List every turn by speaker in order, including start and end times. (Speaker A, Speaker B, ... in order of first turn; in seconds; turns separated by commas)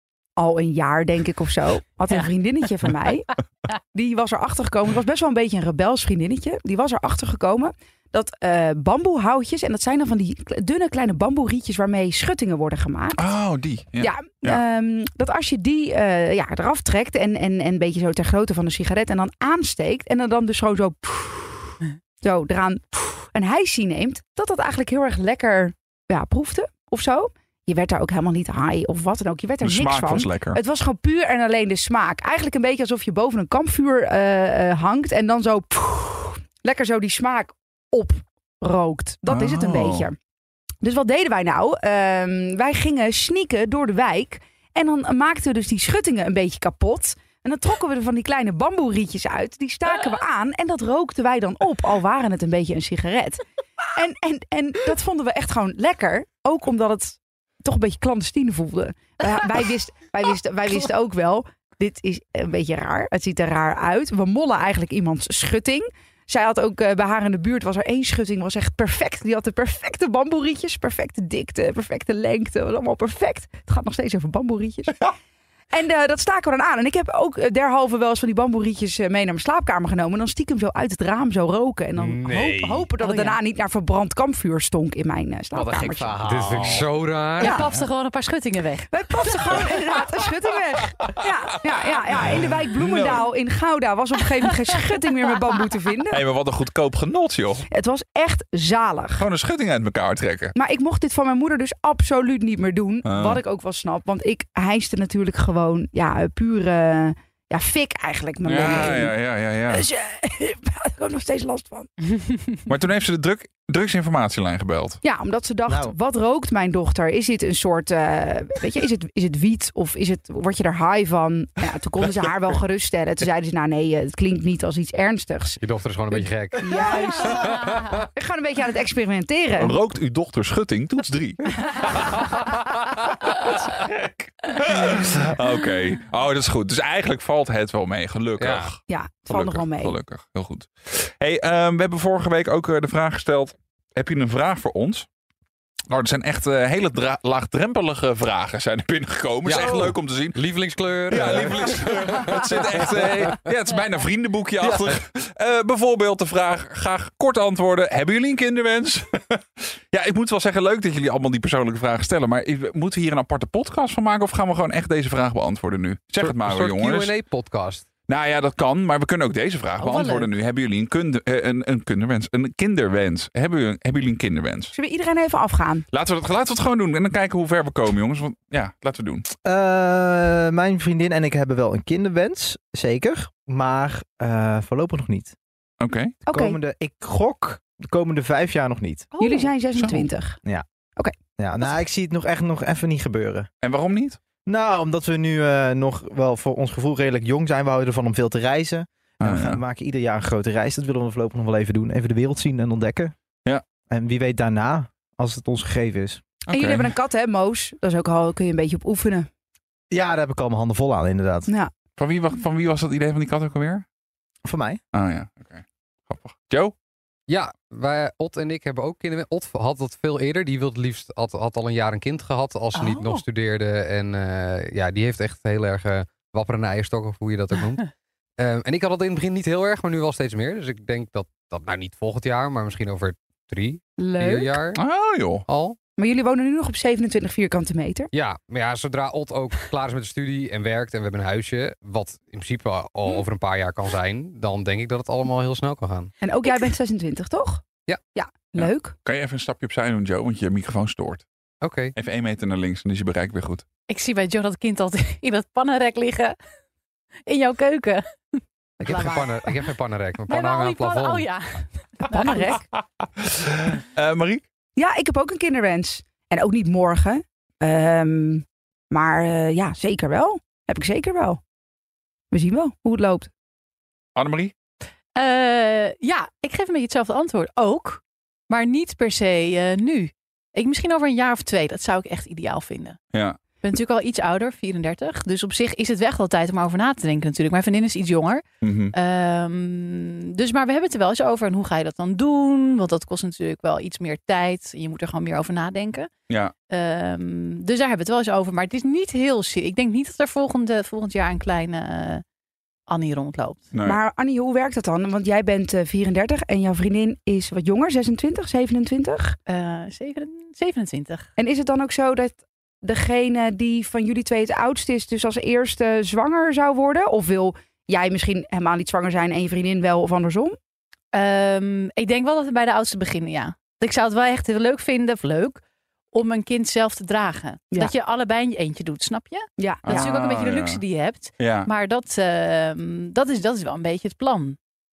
Speaker A: 0.4-13.3, Speaker B: 13.2-14.6, Speaker A: 14.0-40.1, Speaker B: 29.6-30.6, Speaker B: 39.3-40.1, Speaker A: 40.8-53.4, Speaker A: 54.0-75.0, Speaker A: 75.7-86.2, Speaker C: 82.0-82.9, Speaker D: 83.0-83.4, Speaker E: 85.5-86.7, Speaker C: 86.2-87.6, Speaker B: 86.5-86.9, Speaker D: 87.4-88.9, Speaker A: 87.4-87.7, Speaker A: 88.9-96.2, Speaker B: 91.0-93.3, Speaker B: 96.1-97.7, Speaker A: 97.7-99.2, Speaker B: 99.2-100.5, Speaker A: 100.5-111.9, Speaker B: 103.0-103.4, Speaker B: 108.4-109.8, Speaker B: 112.7-115.0, Speaker A: 115.0-125.6, Speaker E: 115.7-115.9, Speaker C: 125.6-127.5, Speaker A: 126.6-129.8, Speaker D: 126.9-127.8, Speaker B: 129.6-132.1, Speaker B: 133.2-145.1, Speaker C: 138.4-138.7, Speaker A: 138.9-139.9, Speaker B: 145.9-150.4, Speaker C: 149.4-153.4, Speaker B: 151.1-167.1, Speaker C: 154.6-154.9, Speaker C: 166.2-167.8, Speaker B: 168.1-174.7, Speaker D: 169.8-170.3, Speaker A: 174.7-175.8, Speaker B: 175.9-179.2, Speaker E: 179.4-185.3, Speaker B: 185.8-186.2, Speaker A: 186.2-186.6, Speaker E: 186.3-189.1, Speaker D: 189.1-189.5, Speaker A: 189.2-190.4, Speaker B: 189.7-190.0, Speaker E: 191.4-193.5, Speaker B: 193.6-194.2, Speaker E: 194.4-203.1, Speaker B: 199.2-199.6, Speaker E: 203.9-206.2, Speaker B: 206.5-206.9, Speaker A: 206.5-209.3, Speaker E: 209.9-211.5, Speaker A: 211.5-211.7, Speaker B: 212.0-213.8, Speaker E: 214.4-214.8, Speaker B: 214.9-216.7, Speaker C: 217.3-227.8, Speaker D: 222.7-223.2, Speaker C: 228.4-234.8, Speaker A: 234.0-234.6, Speaker B: 234.7-235.4, Speaker C: 235.4-235.8, Speaker A: 236.0-238.1, Speaker C: 238.1-246.1, Speaker A: 246.2-247.6, Speaker A: 248.1-249.0, Speaker B: 248.6-251.2, Speaker C: 251.6-251.9, Speaker B: 251.9-253.6, Speaker D: 253.9-256.4, Speaker D: 257.3-259.5, Speaker C: 258.8-261.3, Speaker A: 258.8-259.3, Speaker D: 260.3-262.6, Speaker A: 262.1-262.6, Speaker B: 263.2-264.4, Speaker A: 264.8-271.4, Speaker A: 272.3-273.3, Speaker B: 274.1-274.5, Speaker D: 275.2-283.0, Speaker B: 283.1-283.4, Speaker D: 283.6-296.1, Speaker B: 288.6-288.9, Speaker B: 296.3-296.5, Speaker D: 296.7-302.2, Speaker D: 302.9-303.7, Speaker B: 303.7-304.0, Speaker A: 303.8-309.4, Speaker D: 309.5-311.3, Speaker A: 311.4-320.6, Speaker D: 321.1-325.6, Speaker D: 326.1-334.6, Speaker A: 329.6-330.1, Speaker B: 329.8-330.8, Speaker B: 331.4-331.7